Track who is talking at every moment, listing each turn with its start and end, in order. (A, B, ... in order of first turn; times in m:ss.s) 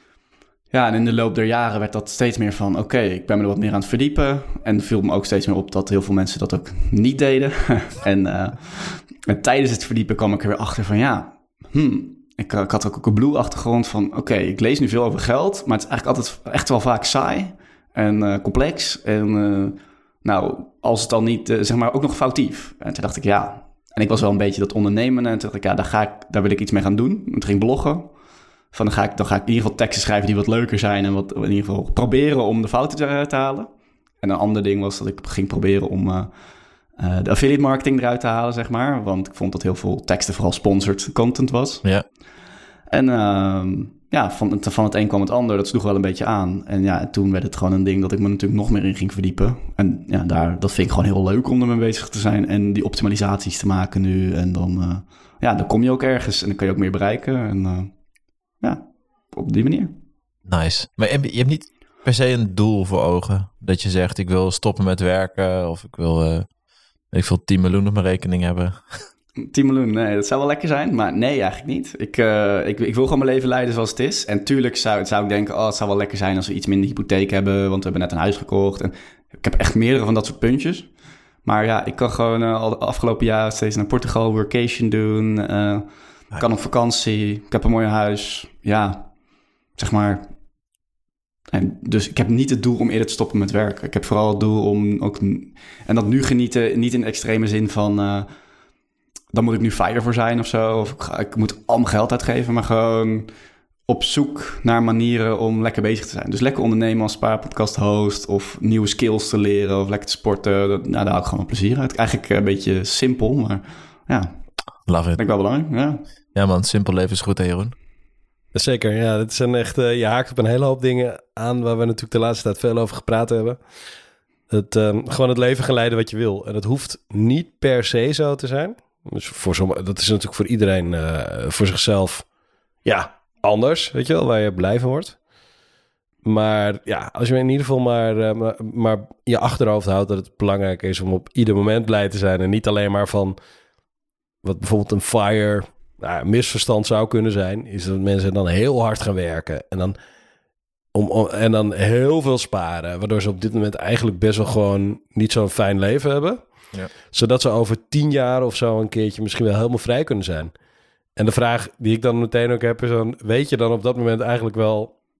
0:00.7-0:28.1 A
0:28.7-0:33.7 A
0:34.2-0:36.3 A
0:37.0-0:41.8 A
0:42.9-0:57.9 A
0:58.6-0:59.9 A
1:00.4-1:06.5 B
1:07.1-1:08.8 B
1:09.4-1:20.9 A
1:21.4-1:29.1 A
1:29.8-1:30.3 A
1:31.5-1:38.3 A
1:39.3-1:43.3 A
1:43.9-1:54.4 A
1:54.8-1:55.2 B
1:55.2-1:56.0 A
1:56.3-1:57.7 B
1:58.5-2:03.6 C
2:04.5-2:12.2 C
2:12.8-2:15.2 C
2:16.2-2:23.4 C
2:24.4-2:29.9 C
2:30.9-2:36.4 C
2:37.1-2:40.5 C
2:41.2-2:44.9 C